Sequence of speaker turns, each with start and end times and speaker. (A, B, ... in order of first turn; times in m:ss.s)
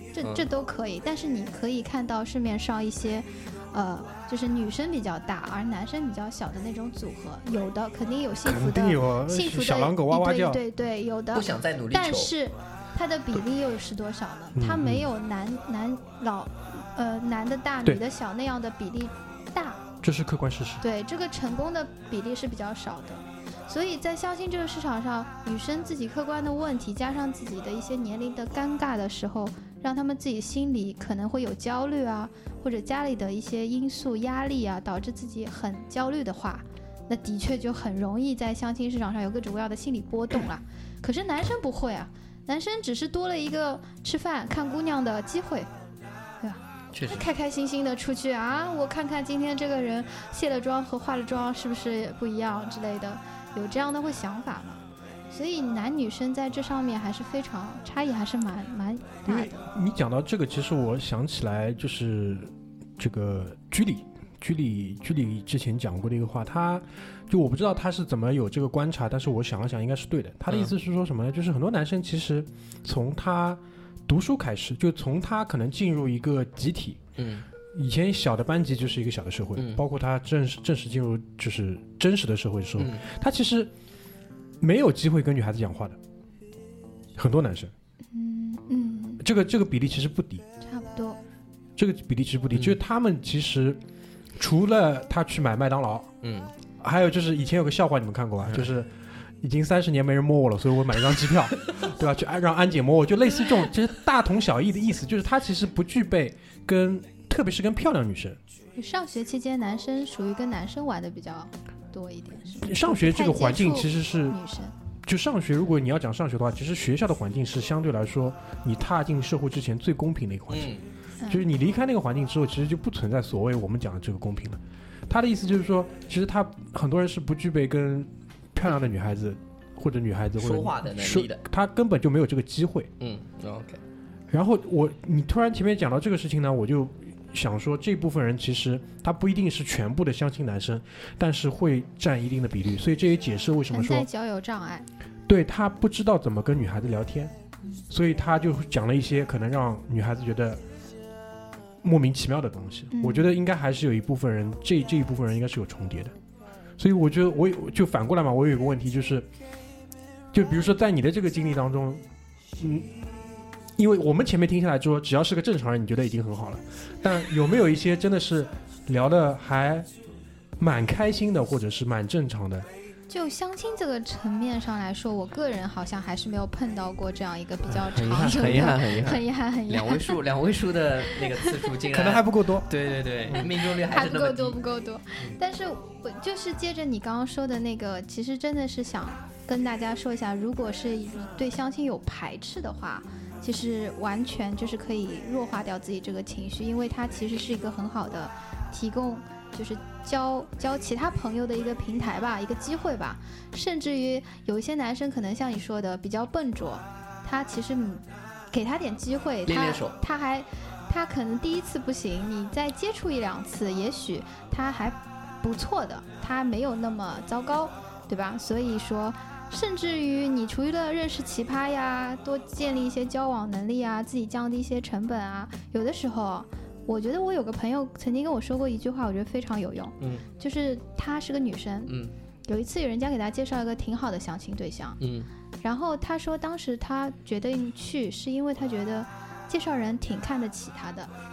0:00.1-0:19.8 A
0:00.2-0:00.5 B
0:08.4-0:10.6 C
0:11.3-0:12.3 B
0:14.6-0:15.0 C
0:20.0-0:20.8 C
0:20.8-0:45.7 A
0:46.4-0:59.6 A
0:46.9-0:47.3 B
0:59.2-1:17.0 C
1:10.5-1:10.7 B
1:17.2-1:17.4 B
1:17.7-1:23.7 C
1:19.6-1:19.8 B
1:22.8-1:23.0 B
1:24.6-1:26.0 C
1:27.2-1:27.7 C
1:28.1-1:29.2 A
1:29.2-1:30.4 C
1:30.6-1:31.2 A
1:31.8-1:33.8 C
1:34.4-1:36.1 C
1:36.2-1:36.5 B
1:36.8-1:48.4 C
1:48.8-1:54.7 A
1:52.6-1:54.4 C
1:55.0-2:00.7 C
2:00.5-2:00.8 B
2:01.3-2:12.9 C
2:10.4-2:11.4 B
2:13.0-2:13.8 B
2:14.3-2:24.0 C
2:23.7-2:24.9 A
2:25.3-2:27.3 C
2:27.9-2:30.6 C
2:31.8-2:36.1 C
2:32.9-2:33.3 A
2:36.8-2:39.3 C
2:40.3-2:42.0 C
2:42.6-2:42.9 C
2:43.8-2:49.9 C
2:50.6-2:52.7 C
2:53.1-3:00.2 A
2:57.9-3:04.6 B
2:57.9-2:58.7 C
3:01.1-3:01.6 A
3:01.9-3:02.7 C
3:03.4-3:52.0 A
3:29.4-3:30.0 B
3:51.9-3:52.1 B
3:52.5-3:55.0 A
3:55.0-3:55.3 B
3:55.6-4:01.1 A